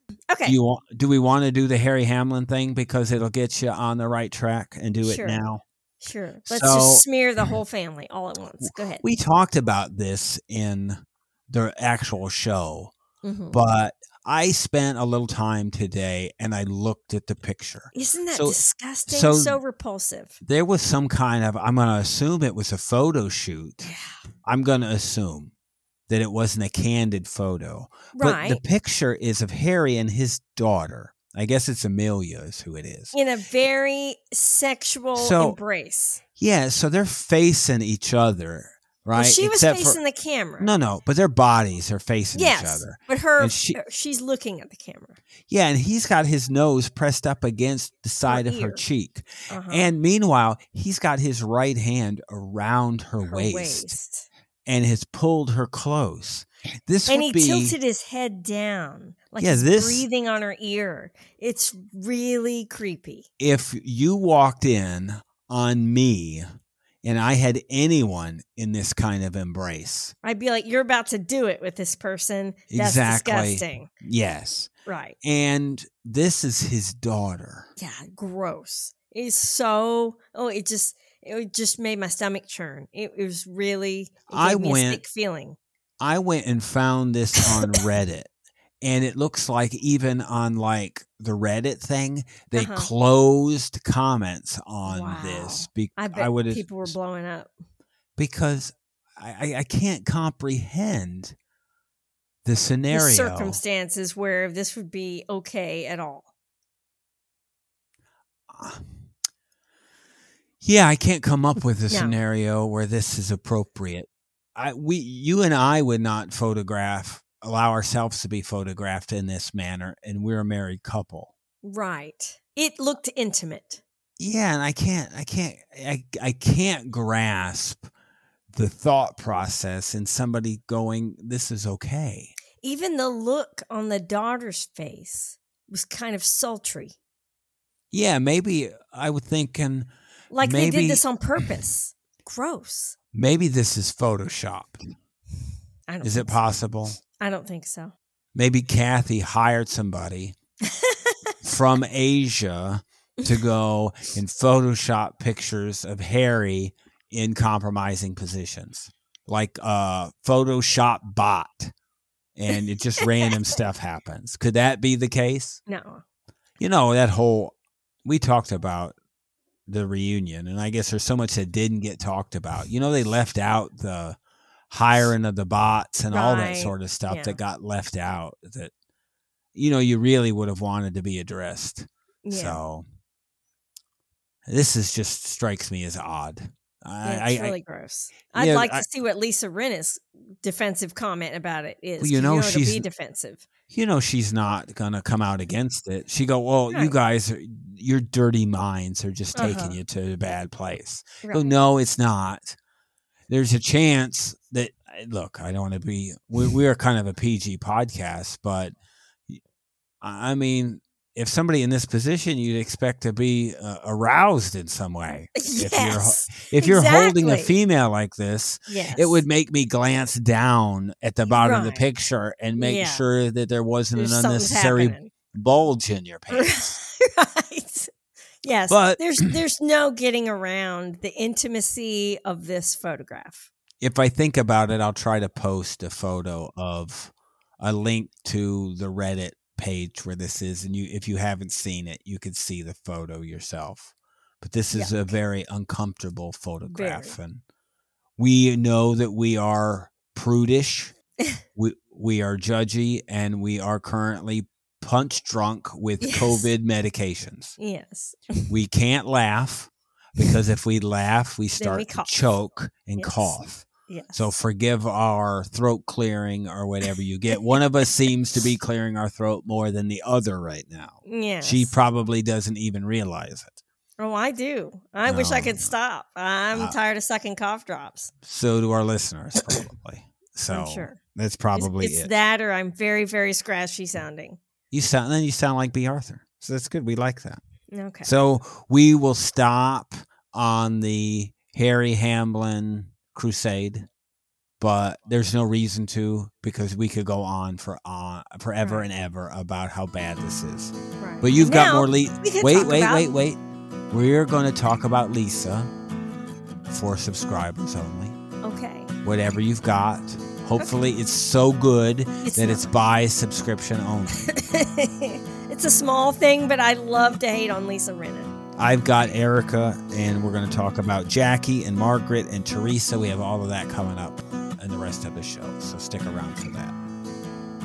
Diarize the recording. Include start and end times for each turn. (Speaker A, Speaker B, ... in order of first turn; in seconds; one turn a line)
Speaker A: 0.3-0.6
Speaker B: 0.5-5.6
Speaker A: 5.0-5.4
Speaker A: 6.0-9.0
Speaker B: 6.5-7.0
Speaker B: 8.6-12.9
Speaker A: 13.2-13.6
Speaker B: 13.5-19.6
Speaker A: 17.9-20.4
Speaker B: 20.4-23.9
Speaker A: 23.8-24.2
Speaker B: 24.4-25.5
Speaker B: 26.1-33.2
Speaker A: 28.1-28.6
Speaker A: 33.1-36.2
Speaker B: 35.2-35.6
Speaker B: 36.4-40.0
Speaker A: 39.1-40.7
Speaker B: 40.6-43.8
Speaker A: 42.3-45.2
Speaker B: 45.5-54.0
Speaker A: 48.2-48.8
Speaker A: 49.5-49.9
Speaker A: 53.3-54.3
Speaker B: 54.7-57.8
Speaker A: 57.1-63.3
Speaker B: 59.4-60.1
Speaker B: 63.4-66.5
Speaker B: 67.0-70.1
Speaker A: 70.2-73.9
Speaker B: 72.7-74.7
Speaker A: 74.9-75.2
Speaker B: 75.2-77.7
Speaker A: 77.8-85.6
Speaker B: 84.3-85.0
Speaker B: 86.0-88.3
Speaker B: 88.8-97.0
Speaker A: 92.5-92.9
Speaker A: 94.9-97.5
Speaker B: 98.2-101.4
Speaker B: 102.5-103.6
Speaker A: 102.9-106.3
Speaker B: 108.5-109.1
Speaker B: 110.6-121.3
Speaker A: 111.9-112.2
Speaker A: 121.6-123.8
Speaker B: 124.2-127.9
Speaker B: 128.5-132.4
Speaker A: 132.6-137.0
Speaker B: 137.9-141.0
Speaker A: 140.3-143.0
Speaker B: 143.1-144.8
Speaker A: 145.9-146.4
Speaker B: 146.0-147.0
Speaker A: 147.2-147.9
Speaker B: 148.3-150.4
Speaker A: 150.7-151.0
Speaker B: 151.4-161.7
Speaker B: 162.4-165.6
Speaker A: 165.7-166.0
Speaker B: 166.6-168.9
Speaker B: 169.7-174.2
Speaker B: 174.7-178.7
Speaker A: 176.1-177.4
Speaker B: 179.6-182.8
Speaker A: 182.2-182.6
Speaker B: 184.5-187.6
Speaker A: 187.0-193.5
Speaker B: 188.3-188.8
Speaker B: 192.0-192.9
Speaker B: 193.7-202.6
Speaker A: 199.3-199.8
Speaker A: 201.2-201.6
Speaker B: 203.3-208.7
Speaker B: 210.0-226.8
Speaker A: 215.4-217.6
Speaker A: 218.7-219.2
Speaker A: 221.3-221.9
Speaker A: 222.6-223.1
Speaker A: 223.9-225.1
Speaker A: 226.3-227.9
Speaker A: 228.4-233.5
Speaker B: 228.7-229.4
Speaker B: 233.8-247.4
Speaker A: 244.7-245.1
Speaker A: 246.7-247.2
Speaker B: 248.2-250.9
Speaker B: 251.6-257.6
Speaker A: 256.0-256.5
Speaker A: 257.6-258.5
Speaker B: 258.5-273.6
Speaker A: 261.6-262.3
Speaker A: 263.0-264.3
Speaker A: 271.1-271.8
Speaker A: 274.0-278.1
Speaker B: 275.1-275.7
Speaker B: 278.2-282.1
Speaker A: 280.5-281.0
Speaker A: 281.6-284.4
Speaker B: 284.7-287.4
Speaker A: 287.7-288.1
Speaker B: 288.0-293.9
Speaker B: 294.6-303.4
Speaker A: 298.6-298.9
Speaker A: 301.0-303.1
Speaker B: 303.9-305.7
Speaker B: 306.7-308.2
Speaker A: 308.4-308.9
Speaker B: 309.0-314.3
Speaker A: 312.2-312.7
Speaker A: 314.1-318.3
Speaker B: 318.6-326.8